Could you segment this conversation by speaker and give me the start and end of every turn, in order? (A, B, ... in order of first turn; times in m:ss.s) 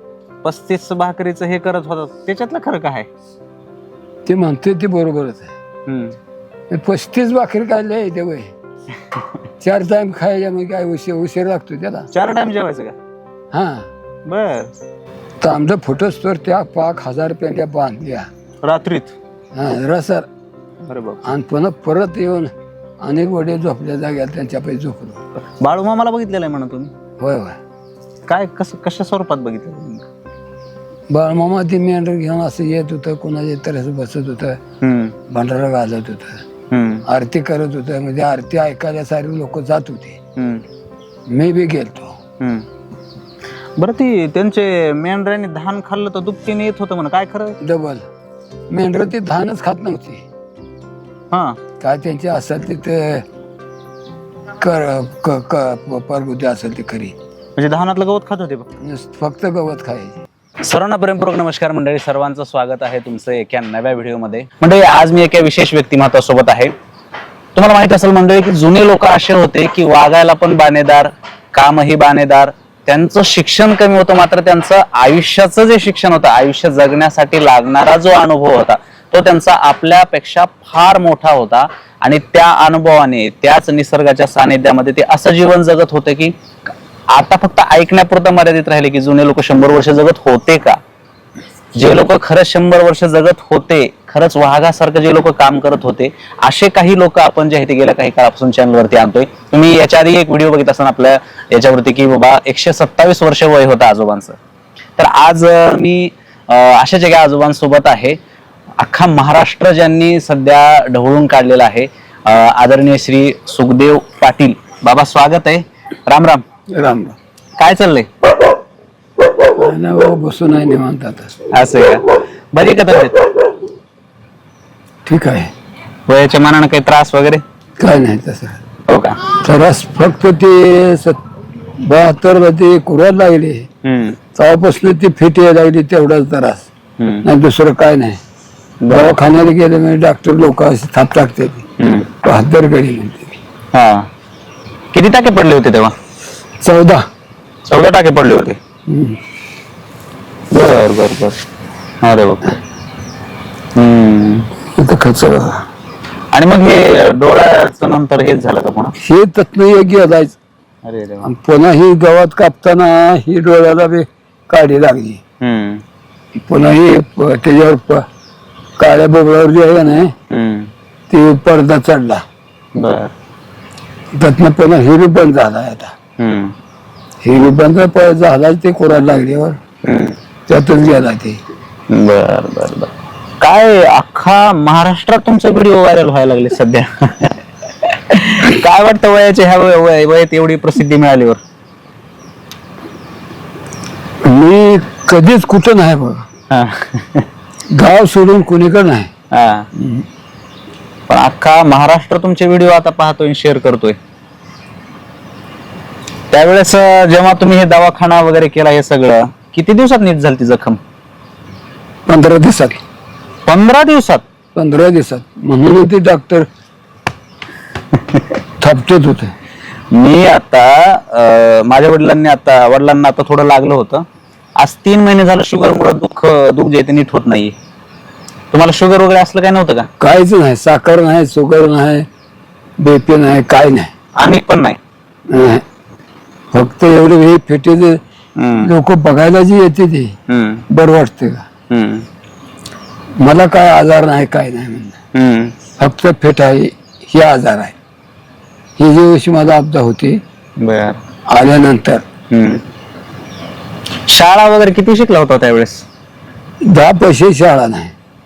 0:00.4-0:03.1 A
0:04.2-0:05.5 B
0:05.9-0:06.2 A
0:06.7-0:08.5 B
0:09.6-0:12.1 B
0:12.1-0:13.0 A
0:13.5-0:13.9 B
0:14.3-0:14.7 A
0:15.4-0:18.3 B
0:18.6-0:19.2 A
0:19.5-0:20.3 B
0:20.8-0:21.2 A
0:21.2-0:25.2 B
0:25.6-0:26.9 A
0:27.2-0:27.6 B
0:28.3-0:30.1 A
0:31.1-0:34.6 B
0:34.8-0:35.2 A
0:35.3-0:36.4 B
0:36.7-0:37.0 A
0:37.0-0:40.2 B
0:40.4-0:40.6 A
0:41.3-0:42.2 B
0:42.4-0:42.6 A
0:43.8-0:47.6 A
0:47.6-0:48.1 B
0:48.7-0:50.2 B
0:51.3-0:51.6 A
0:51.8-0:53.2 B
0:54.6-0:57.1 B
0:57.6-0:58.8 A
0:58.8-1:00.2 B
1:00.6-1:06.7 A
1:07.6-1:26.4 A
1:27.1-1:30.8 A
1:31.7-1:44.4 A
1:45.0-1:48.2 A
1:48.8-1:56.4 A
1:56.7-1:57.2 B
1:57.6-1:58.1 A
1:59.5-2:01.3 B
2:01.5-2:03.2 A
2:05.0-2:05.5 B
2:06.1-2:07.4 A
2:07.8-2:08.6 B
2:08.9-2:09.2 A
2:09.3-2:11.2 B
2:11.8-2:13.7 B
2:13.8-2:14.2 A
2:14.3-2:16.7 B
2:17.0-2:17.3 A
2:17.2-2:18.2 B
2:18.8-2:19.2 A
2:18.9-2:21.6 B
2:21.8-2:22.1 A
2:22.2-2:23.4 B
2:23.7-2:24.1 A
2:24.9-2:25.9 A
2:26.6-2:27.0 B
2:27.6-2:28.6 A
2:28.9-2:29.2 B
2:30.5-2:31.4 A
2:32.0-2:32.6 A
2:33.7-2:34.5 A
2:34.8-2:35.7 B
2:36.3-2:38.9 A
2:39.0-2:40.4 B
2:40.8-2:41.3 A
2:41.2-2:45.2 B
2:45.4-2:45.8 A
2:46.4-2:48.0 B
2:48.8-2:50.1 B
2:50.3-2:50.7 A
2:51.1-2:52.2 B
2:52.7-2:53.1 A
2:54.1-2:55.9 B
2:56.2-2:56.6 A
2:57.2-2:59.6 B
2:59.8-3:00.2 A
3:00.5-3:01.4 B
3:01.9-3:11.4 A
3:14.2-3:16.3 B
3:16.5-3:17.3 A
3:17.7-3:19.1 B
3:19.3-3:19.7 A
3:19.7-3:20.0 B
3:21.1-3:24.0 A
3:26.3-3:30.8 A
3:32.1-3:32.8 B
3:33.4-3:34.2 A
3:34.5-3:36.5 B
3:37.9-3:38.2 A
3:38.6-3:39.3 B
3:39.9-3:44.0 A
3:44.6-3:47.5 A
3:48.5-3:49.9 A
3:50.0-3:52.1 B
3:52.8-3:53.9 B
3:54.2-3:54.8 A
3:55.3-3:55.6 B
3:56.5-3:58.0 B
3:58.4-3:58.7 A
3:58.6-4:00.2 B
4:00.3-4:00.6 A
4:00.7-4:01.4 B
4:01.7-4:02.1 A
4:03.2-4:05.0 B
4:05.1-4:05.6 A
4:05.8-4:07.8 B
4:08.8-4:10.2 B
4:10.6-4:11.0 A
4:11.3-4:12.0 B
4:12.3-4:12.6 A
4:14.1-4:15.8 A
4:16.6-4:17.9 B